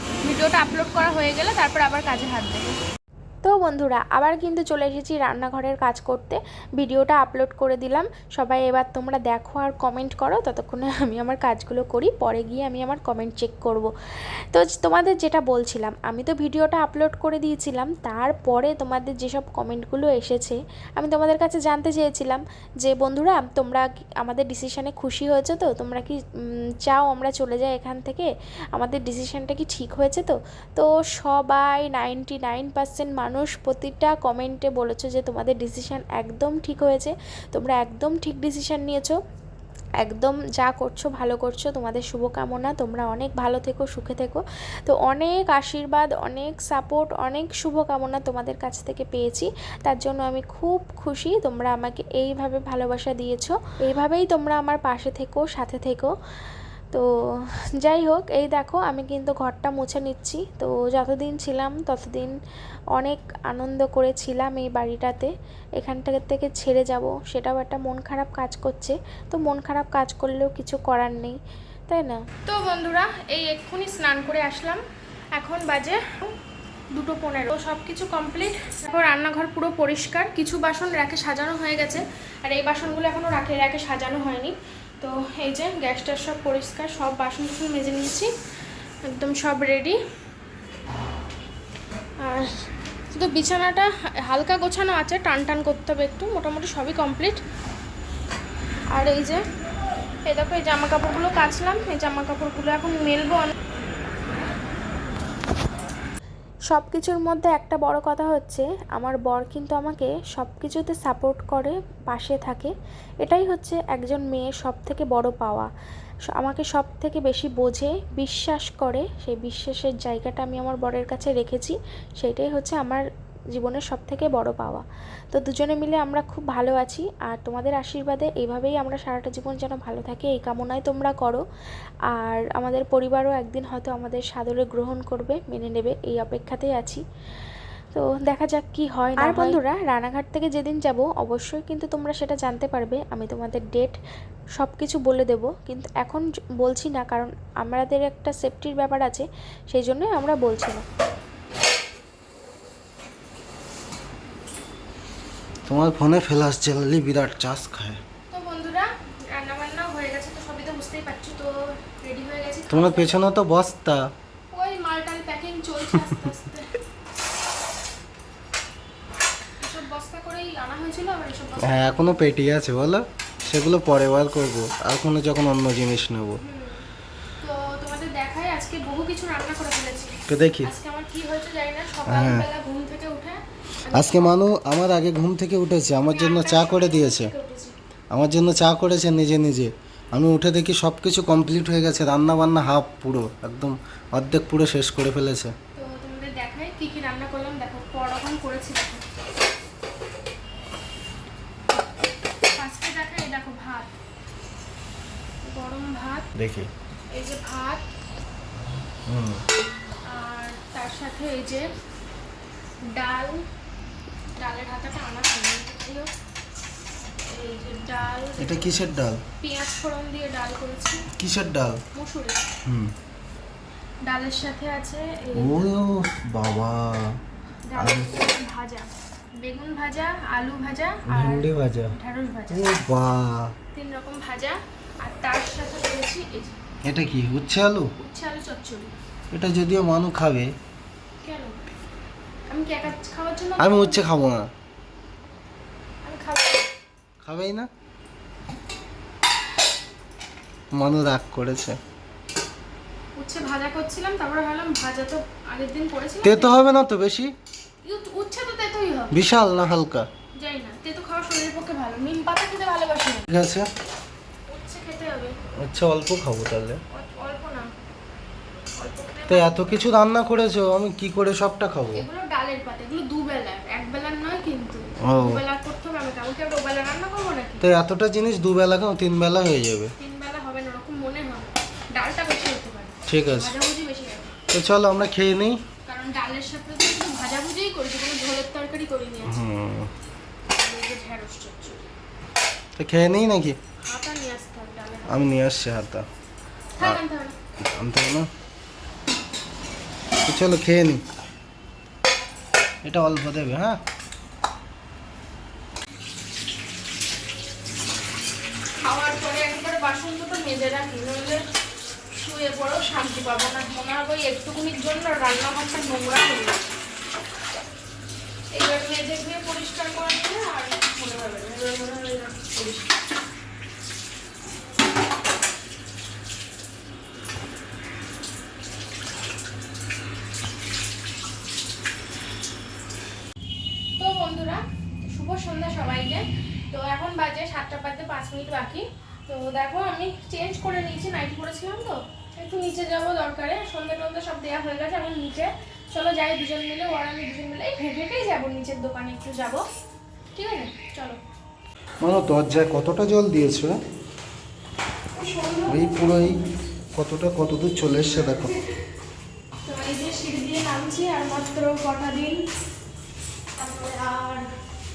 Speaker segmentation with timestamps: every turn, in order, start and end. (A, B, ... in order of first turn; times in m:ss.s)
0:00.2-0:02.8 A
0:03.4-0:13.9 B
0:14.5-0:26.2 B
0:26.8-0:39.2 B
0:40.0-0:56.1 B
0:57.8-1:02.3 B
1:02.9-1:12.2 B
1:12.4-1:14.8 A
1:15.4-1:16.4 A
1:16.9-1:28.3 A
1:29.1-1:30.0 A
1:32.2-1:37.4 A
1:38.9-1:39.4 A
1:40.2-1:43.5 A
1:46.7-1:52.7 B
1:53.2-1:55.7 B
1:56.3-2:11.4 B
2:12.1-2:17.0 B
2:17.9-2:24.0 B
2:19.2-2:19.6 A
2:24.6-2:30.8 B
2:35.7-2:38.0 C
2:38.3-2:43.2 A
2:42.7-2:44.0 C
2:44.5-2:46.7 A
2:49.6-2:52.2 A
2:51.6-2:56.4 C
2:56.4-2:56.8 A
2:57.4-3:04.4 A
3:00.3-3:00.7 C
3:02.0-3:02.5 C
3:03.9-3:07.3 C
3:06.0-3:07.8 A
3:08.1-3:15.5 C
3:15.7-3:19.0 A
3:22.5-3:23.9 A
3:25.4-3:26.3 A
3:26.4-3:26.7 C
3:27.1-3:27.8 A
3:29.1-3:29.4 C
3:30.1-3:31.7 A
3:32.9-3:33.4 A
3:34.4-3:36.1 A
3:37.2-3:38.9 A
3:38.4-3:39.2 C
3:39.4-3:41.1 A
3:41.2-3:41.8 C
3:41.9-3:42.4 A
3:42.6-3:42.9 C
3:44.0-3:45.7 A
3:45.3-3:47.2 C
3:47.7-3:52.7 A
3:47.8-3:48.1 C
3:51.1-3:51.9 C
3:52.5-3:53.5 C
3:53.7-3:56.6 A
3:56.8-3:57.9 C
3:58.0-3:58.9 A
3:59.3-4:00.5 C
4:01.2-4:01.6 A
4:02.5-4:04.0 A
4:03.6-4:04.5 C
4:06.0-4:06.7 A
4:07.2-4:07.7 C
4:10.7-4:11.8 C
4:13.2-4:16.5 A
4:16.2-4:17.3 C
4:17.8-4:19.3 A
4:19.1-4:20.1 C
4:20.4-4:23.2 A
4:23.3-4:23.7 C
4:24.5-4:25.4 A
4:25.6-4:26.8 C
4:26.9-4:27.7 A
4:28.8-4:29.8 A
4:29.3-4:32.1 C
4:31.9-4:37.6 A
4:35.0-4:35.4 C
4:37.6-4:39.9 C
4:40.0-4:44.3 A
4:43.1-4:43.5 C
4:44.5-4:45.6 C
4:45.8-4:49.4 A
4:49.2-4:49.9 C
4:50.5-4:51.8 A
4:52.8-4:53.6 C
4:53.8-4:55.3 A
4:55.1-4:56.0 C
4:56.8-4:57.3 A
4:57.6-4:58.3 C
5:00.3-5:01.0 C
5:02.8-5:03.8 C
5:08.8-5:11.4 A
5:12.2-5:16.7 A
5:18.5-5:22.9 A
5:34.0-5:49.6 A
5:50.3-5:51.2 A
5:52.0-5:53.8 C
5:55.1-5:56.4 A
5:55.7-5:56.4 C
5:56.9-5:58.5 C
5:58.2-5:58.8 A
5:59.6-6:02.4 A
6:03.5-6:04.5 A